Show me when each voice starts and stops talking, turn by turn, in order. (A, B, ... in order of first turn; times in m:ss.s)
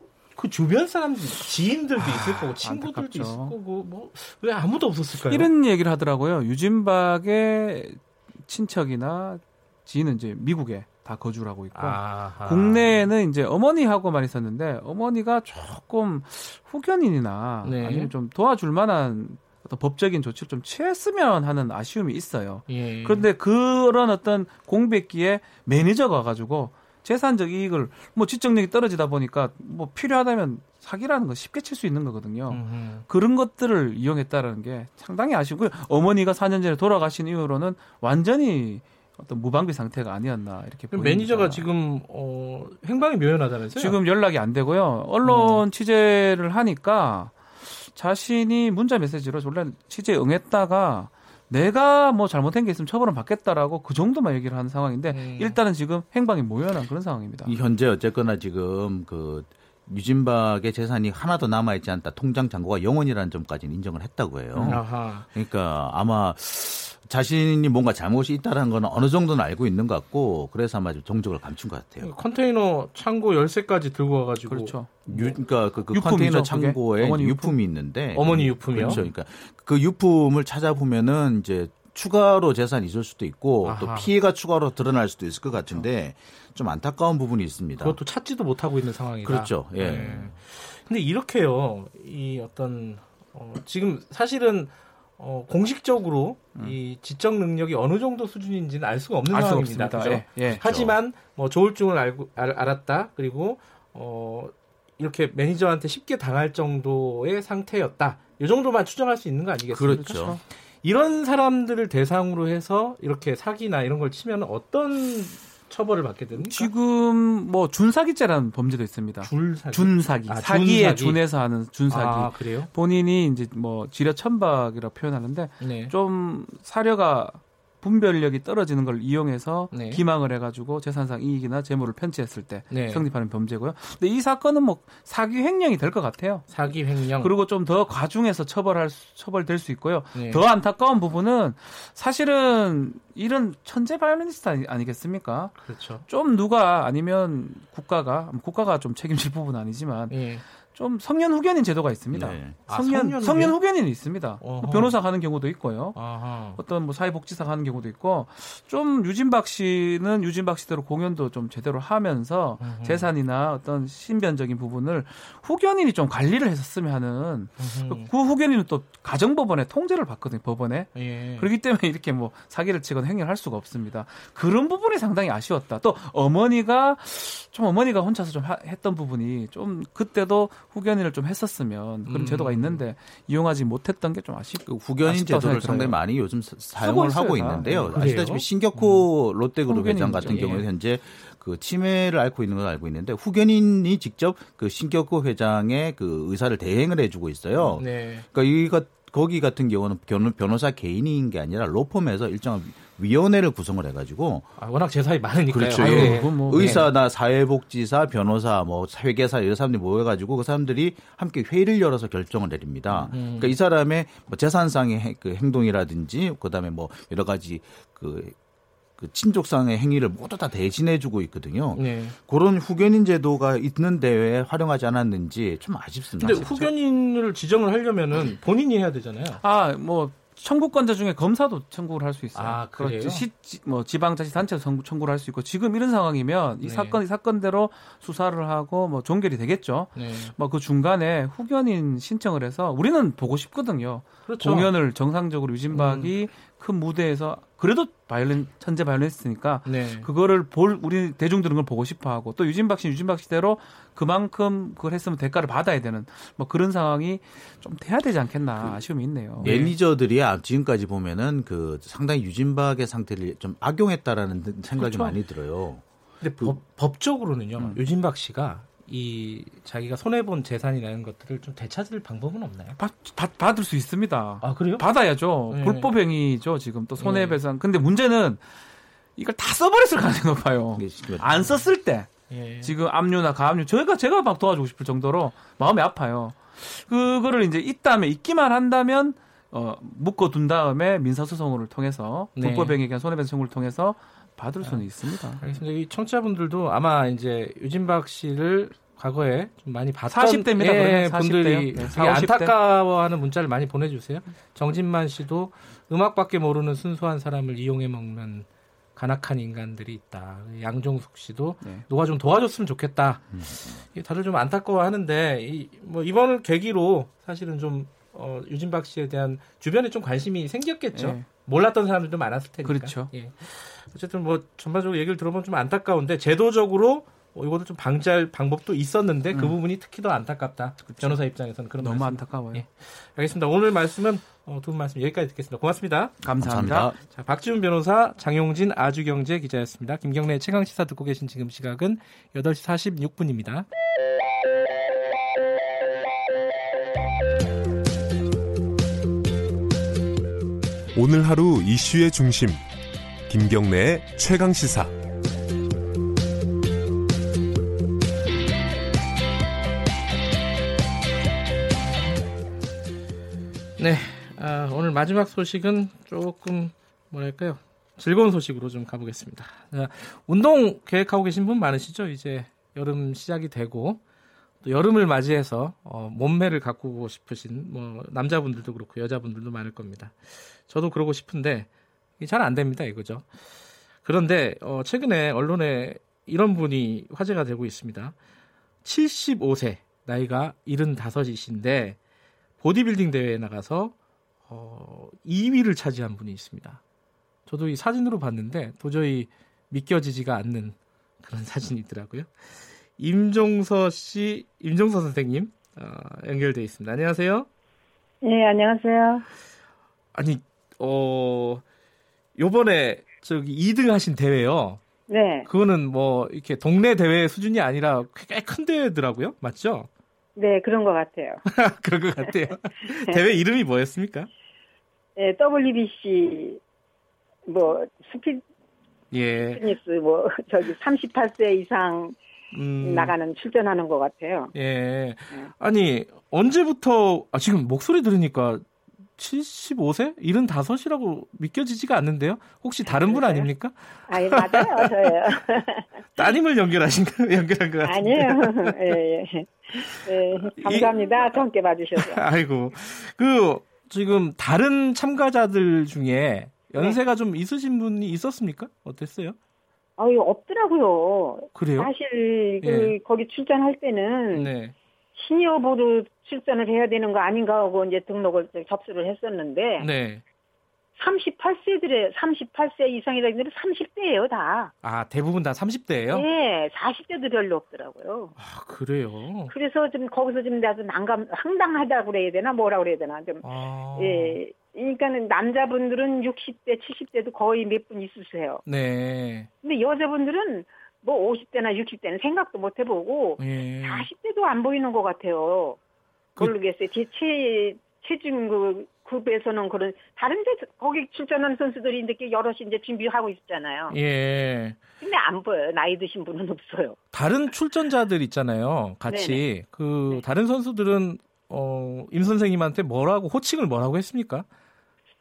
0:00.4-0:05.5 A
0:02.0-0:03.6 B
0:05.3-0:41.7 B
0:11.7-0:13.0 A
0:17.6-0:18.1 A
0:22.7-0:23.3 A
0:32.5-0:33.0 A
0:40.9-0:44.0 A
0:43.8-0:57.5 B
0:45.2-0:45.6 A
0:55.1-0:55.6 A
0:57.4-1:12.1 C
1:04.6-1:05.3 A
1:12.0-1:15.2 A
1:14.5-1:17.6 B
1:15.1-1:28.0 C
1:18.1-1:19.0 A
1:18.7-1:19.1 B
1:23.6-1:24.1 A
1:27.8-1:50.1 A
1:29.2-1:30.1 C
1:29.8-1:30.3 B
1:39.3-1:40.6 B
1:40.4-1:41.0 C
1:49.7-1:50.4 C
1:49.8-1:50.4 B
1:50.8-1:56.7 A
1:56.3-3:06.0 B
1:59.2-2:01.2 A
2:01.9-2:02.7 A
2:05.6-2:05.9 A
2:09.7-2:10.0 A
2:12.7-2:13.1 A
2:16.5-2:17.3 A
2:20.1-2:20.4 A
2:25.6-2:26.0 A
2:30.1-2:30.4 A
2:32.1-2:32.6 C
2:32.7-2:33.6 A
2:34.4-2:35.0 A
2:35.9-2:36.6 A
2:42.6-2:43.1 A
2:47.6-2:48.1 A
2:50.9-2:51.5 A
3:02.0-3:02.8 A
3:04.6-3:24.5 C
3:06.8-3:08.3 B
3:07.9-3:09.0 A
3:09.7-3:10.6 B
3:10.2-3:10.6 A
3:17.7-3:18.2 A
3:24.6-3:26.9 A
3:25.5-3:38.4 C
3:25.8-3:26.9 B
3:33.1-3:33.5 A
3:39.0-3:46.7 C
3:41.7-3:42.2 A
3:46.2-3:49.4 A
3:49.4-4:19.5 B
3:52.3-3:53.2 A
3:56.6-3:57.0 A
4:00.0-4:00.3 A
4:04.2-4:04.7 A
4:05.7-4:06.1 A
4:09.6-4:10.1 A
4:19.4-4:25.8 C
4:19.4-4:19.7 A
4:24.8-4:25.1 B
4:26.2-4:32.8 A
4:32.8-4:38.5 B
4:34.4-4:35.9 A
4:37.0-4:37.4 A
4:39.2-4:42.1 B
4:40.8-4:41.6 C
4:42.3-4:42.7 A
4:42.6-4:55.4 B
4:52.4-4:52.8 A
4:55.4-5:13.4 A
5:00.1-5:02.6 B
5:13.3-5:13.8 C
5:13.9-5:36.1 A
5:20.9-5:21.3 B
5:22.6-5:23.1 B
5:30.8-5:31.2 B
5:31.8-5:32.6 B
5:36.2-5:36.9 B
5:36.2-5:37.0 C
5:37.0-5:43.7 A
5:50.9-5:52.6 D
5:53.3-5:54.9 D
6:03.8-6:14.0 A
6:14.6-6:23.3 A
6:24.0-6:28.2 A
6:28.8-6:32.0 A
6:32.6-6:33.9 A
6:34.5-6:36.8 A
6:37.4-6:47.5 A
6:48.2-6:49.2 E
6:50.1-6:51.6 A
6:52.4-6:54.8 A
6:55.1-6:55.5 E
6:55.4-6:59.9 A
7:00.4-7:01.4 E
7:01.5-7:04.3 A
7:02.2-7:03.4 E
7:05.2-7:06.6 E
7:07.5-7:08.4 E
7:09.1-7:09.6 A
7:09.4-7:12.2 E
7:12.5-7:13.1 A
7:12.8-7:14.5 E
7:14.5-7:18.6 A
7:19.2-7:25.3 A
7:22.8-7:23.5 E
7:24.1-7:25.9 E
7:26.2-7:28.9 A
7:27.8-7:32.2 E
7:30.6-7:31.1 A
7:32.0-7:39.4 A
7:40.0-7:44.5 E
7:41.5-7:41.9 A
7:42.6-7:42.9 A
7:44.3-7:44.7 A
7:45.1-7:49.9 E
7:49.8-7:50.2 A
7:51.0-7:54.7 E
7:54.8-7:56.2 A
7:56.1-7:58.3 E
7:58.4-7:59.5 A
7:59.5-8:03.4 E
8:03.4-8:04.4 A
8:04.0-8:08.6 E
8:08.6-8:09.5 A
8:09.6-8:15.8 E
8:13.4-8:14.1 A
8:16.4-8:24.0 E
8:23.9-8:24.8 A
8:25.0-8:27.0 E
8:27.1-8:34.5 A
8:29.1-8:29.4 E